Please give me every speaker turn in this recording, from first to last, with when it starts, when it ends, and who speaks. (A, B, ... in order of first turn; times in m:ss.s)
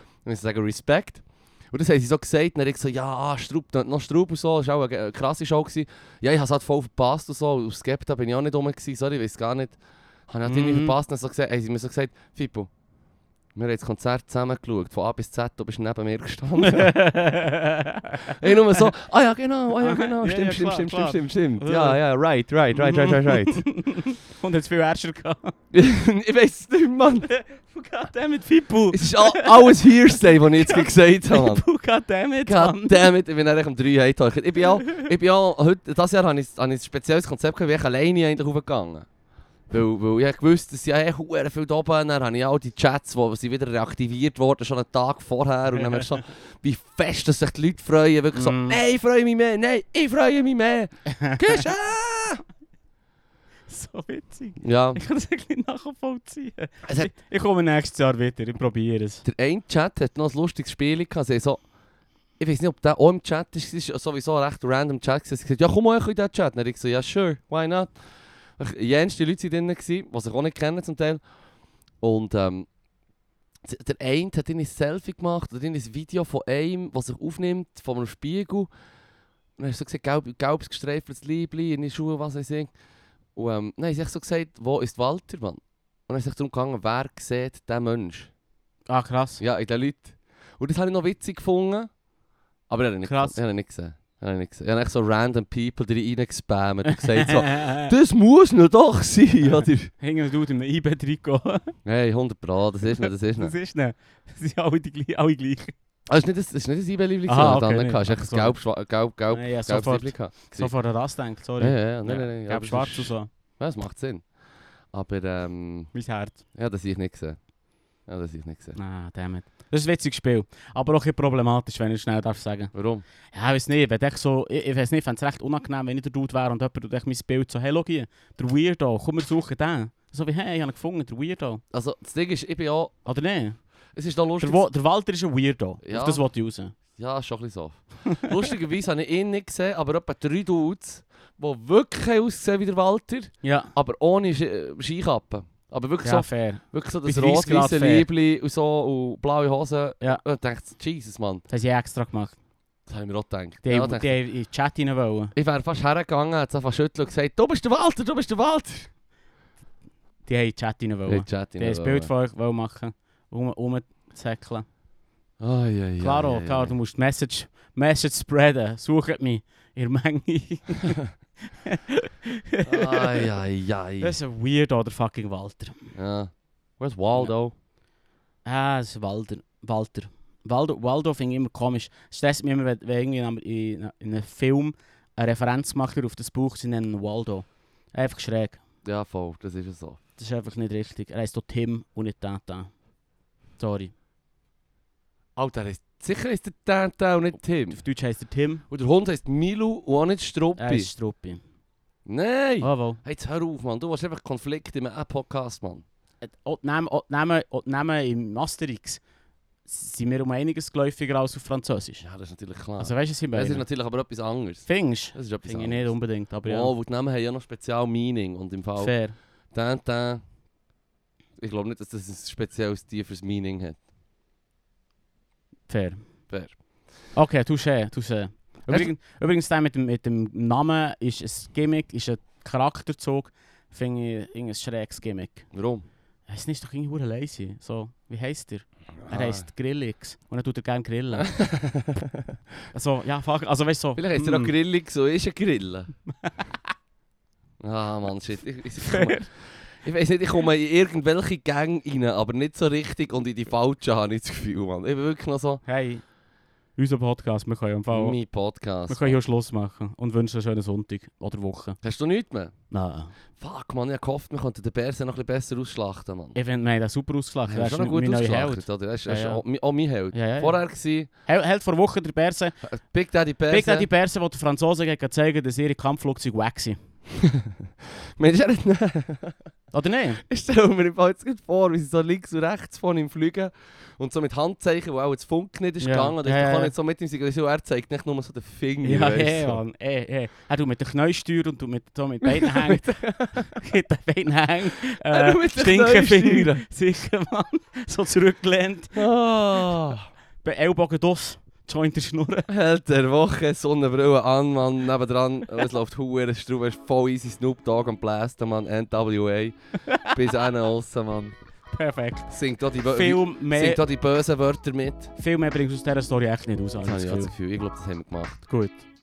0:00.2-0:09.8 A
0:10.3-0:12.7 A
0:10.4-0:11.0 B
0:13.6-0:17.0 A
0:16.6-0:18.8 B
0:18.2-0:23.7 A
0:19.8-0:22.0 B
0:22.7-0:25.5 B
0:25.7-0:27.3 A
0:27.3-0:33.1 B
0:28.9-0:31.6 A
0:32.5-0:39.1 A
0:39.7-0:52.4 A
0:45.8-0:46.1 B
0:48.3-0:48.8 B
0:51.1-0:51.6 B
0:53.7-0:59.2 B
0:54.6-0:55.0 A
0:56.8-0:57.1 A
0:59.2-1:01.6 A
1:02.4-1:07.9 A
1:08.6-1:11.2 A
1:12.0-1:12.7 A
1:13.6-1:18.7 A
1:19.6-1:22.7 A
1:23.4-1:28.3 A
1:28.9-1:29.4 B
1:29.4-1:31.9 A
1:32.7-1:39.9 A
1:33.0-1:33.4 B
1:36.9-1:37.9 B
1:39.5-1:41.8 B
1:41.8-1:43.5 A
1:43.4-1:45.7 B
1:46.1-1:50.7 A
1:47.3-1:48.6 B
1:49.3-1:53.3 B
1:51.6-1:54.3 A
1:54.9-1:55.9 A
1:55.9-1:56.4 B
1:56.6-1:57.4 A
1:58.1-1:58.8 A
1:58.8-2:02.7 B
2:02.7-2:03.0 A
2:03.3-2:11.6 B
2:11.7-2:13.0 A
2:13.1-2:13.6 B
2:13.9-2:14.6 A
2:14.4-2:16.7 B
2:15.8-2:16.2 A
2:17.0-2:31.4 A
2:23.4-2:23.7 B
2:26.0-2:28.1 B
2:31.5-2:32.4 B
2:32.9-2:34.2 A
2:33.6-2:35.3 B
2:35.4-2:38.9 A
2:40.3-2:44.7 B
2:41.1-2:42.1 A
2:45.4-2:46.8 A
2:46.0-2:53.3 B
2:52.7-2:54.1 A
2:54.0-2:55.9 B
2:56.0-2:57.5 A
2:58.4-3:08.6 B
3:08.8-3:10.0 A
3:10.2-3:12.7 B
3:13.6-3:13.9 B
3:15.4-3:17.8 A
3:17.7-3:18.6 B
3:18.7-3:20.9 A
3:20.6-3:21.4 B
3:22.1-3:25.8 A
3:22.6-3:23.0 B
3:26.2-3:29.0 B
3:29.7-3:32.0 B
3:32.0-3:35.9 A
3:32.8-3:33.6 B
3:34.7-3:36.7 B
3:36.5-3:38.9 A
3:38.8-3:39.2 B
3:39.5-3:40.2 A
3:41.4-3:43.8 A
3:45.7-3:46.1 B
3:46.3-3:46.6 A
3:47.2-3:55.5 B
3:55.5-3:55.8 A
3:56.3-4:01.3 B
3:59.0-3:59.5 A
4:01.2-4:02.3 A
4:02.7-4:04.5 B
4:04.0-4:05.9 A
4:06.2-4:06.5 B
4:07.6-4:09.3 A
4:08.8-4:09.3 B
4:09.8-4:15.6 A
4:15.7-4:16.0 B
4:16.8-4:18.2 B
4:17.9-4:19.2 A
4:18.9-4:21.8 B
4:21.8-4:22.5 A
4:22.7-4:23.1 B
4:23.4-4:26.4 A
4:26.4-4:29.4 B
4:27.5-4:31.1 A
4:30.1-4:30.6 B
4:31.3-4:32.6 B
4:32.6-4:33.9 A
4:33.5-4:36.8 B
4:37.1-4:39.4 A
4:39.7-4:40.2 B
4:40.2-4:49.6 A
4:45.8-4:46.7 B
4:48.8-4:59.1 B
4:52.2-4:53.5 A
4:55.0-4:56.6 A
4:59.0-5:00.0 A
5:00.4-5:02.5 B
5:02.5-5:11.4 A
5:09.9-5:10.2 B
5:11.7-5:12.3 B
5:12.3-5:15.1 A
5:12.8-5:13.8 B
5:15.2-5:17.3 B
5:16.8-5:18.4 A
5:18.5-5:18.9 B